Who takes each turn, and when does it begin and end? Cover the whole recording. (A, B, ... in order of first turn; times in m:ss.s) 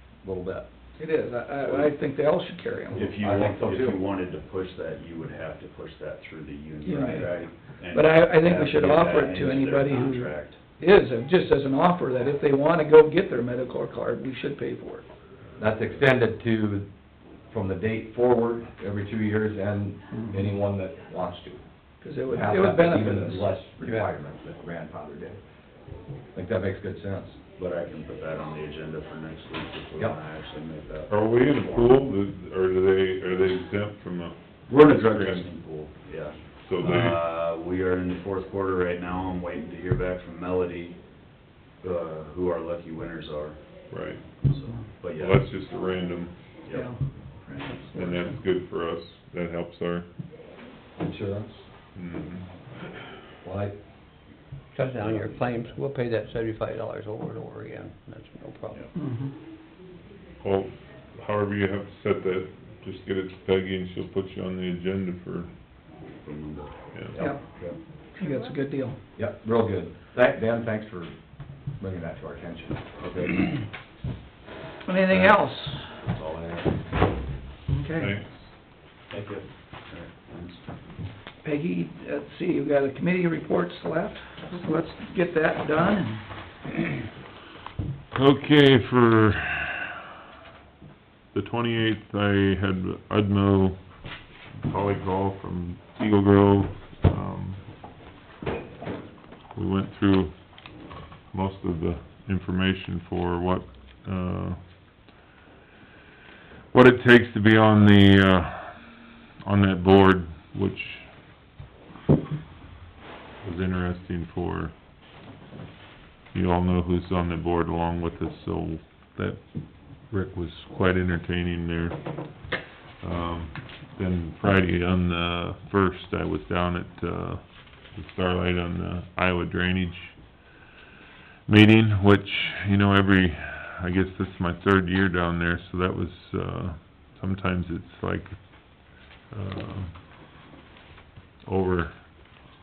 0:00.2-0:00.7 A
0:01.0-0:03.1 B
0:03.0-0:10.6 C
0:03.0-0:04.0 A
0:06.8-0:07.3 B
0:07.0-0:07.2 A
0:07.9-0:15.1 B
0:15.6-0:16.9 A
0:17.5-0:21.6 A
0:20.1-0:20.4 B
0:22.0-0:23.6 B
0:22.3-0:25.4 A
0:26.3-0:27.4 A
0:27.6-0:31.9 C
0:31.1-0:35.5 D
0:34.7-0:41.0 C
0:36.6-0:37.2 D
0:41.8-0:43.6 C
0:43.9-0:44.2 D
0:44.4-0:45.4 C
0:45.1-0:46.3 D
0:46.7-0:46.9 C
0:46.7-0:48.4 B
0:48.0-0:50.1 D
0:51.0-0:51.6 A
0:52.0-0:52.6 D
0:53.4-0:53.8 A
0:54.7-0:58.8 E
0:59.0-0:59.3 B
1:00.4-1:05.5 D
1:06.2-1:07.8 C
1:06.9-1:07.2 D
1:08.2-1:09.0 B
1:09.2-1:11.1 A
1:11.8-1:12.8 A
1:13.0-1:13.4 C
1:14.8-1:16.0 B
1:16.2-1:16.7 A
1:17.7-1:18.2 B
1:18.0-1:18.5 D
1:19.1-1:20.6 C
1:21.4-1:26.3 B
1:28.1-1:30.0 D
1:31.3-1:37.6 D
1:39.5-1:44.7 D
1:46.7-1:51.3 D
1:53.4-1:54.8 D
1:56.3-2:10.6 D
2:11.5-2:20.0 D
2:21.4-2:22.1 D